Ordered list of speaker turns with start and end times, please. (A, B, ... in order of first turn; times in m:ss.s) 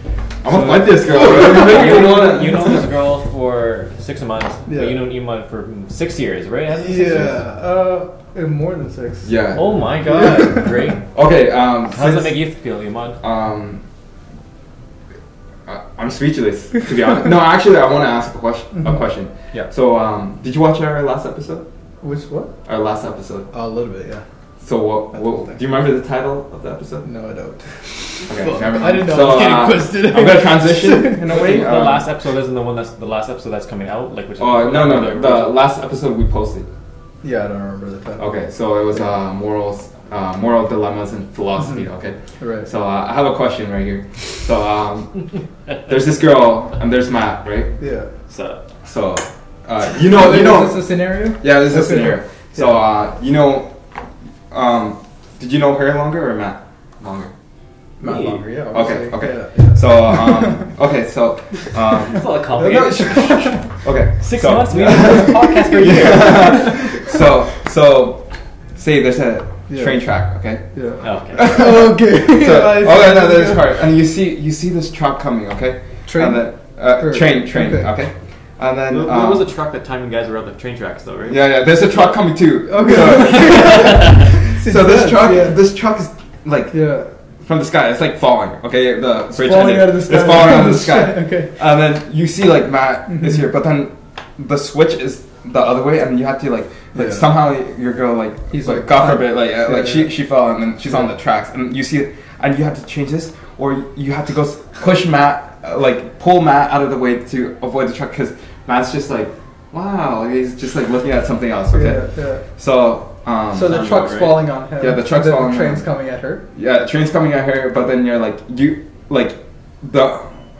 0:00.4-0:02.8 A
0:00.5-0:01.7 B
0:01.3-0:07.4 C
0:04.7-0:05.0 B
0:06.7-0:09.4 B
0:09.2-0:09.8 A
0:09.5-0:11.1 C
0:10.1-0:10.7 B
0:11.1-0:12.3 A
0:11.9-0:13.2 C
0:13.2-0:13.8 A
0:15.6-0:21.6 A
0:22.0-0:22.5 B
0:22.6-0:23.5 A
0:23.5-0:24.2 B
0:24.6-0:27.1 A
0:27.0-0:31.4 B
0:28.2-0:32.0 A
0:31.3-0:35.6 C
0:34.4-0:36.7 A
0:37.2-0:38.3 B
0:38.2-0:45.3 A
0:41.6-0:41.8 B
0:42.4-0:42.7 B
0:45.8-0:47.7 A
0:47.8-0:48.1 B
0:48.3-0:48.6 C
0:48.8-0:53.7 A
0:50.0-0:52.8 B
0:54.5-0:57.3 A
0:58.0-1:00.6 B
0:58.0-0:58.4 C
0:58.7-1:10.6 A
1:02.1-1:03.2 C
1:02.6-1:03.6 B
1:04.2-1:06.8 C
1:04.7-1:07.1 B
1:09.7-1:10.0 B
1:10.7-1:13.8 B
1:11.0-1:11.6 C
1:11.3-1:19.5 A
1:16.1-1:17.9 B
1:18.9-1:21.4 C
1:21.3-1:52.0 A
1:22.7-1:25.6 B
1:23.3-1:24.2 C
1:26.7-1:27.1 B
1:29.3-1:31.5 B
1:33.1-1:33.4 B
1:36.9-1:37.3 B
1:38.5-1:40.1 B
1:51.7-1:52.4 B
1:52.6-1:53.9 A
1:53.5-1:56.4 B
1:53.6-1:54.4 C
1:54.8-1:55.8 A
1:56.5-2:00.4 A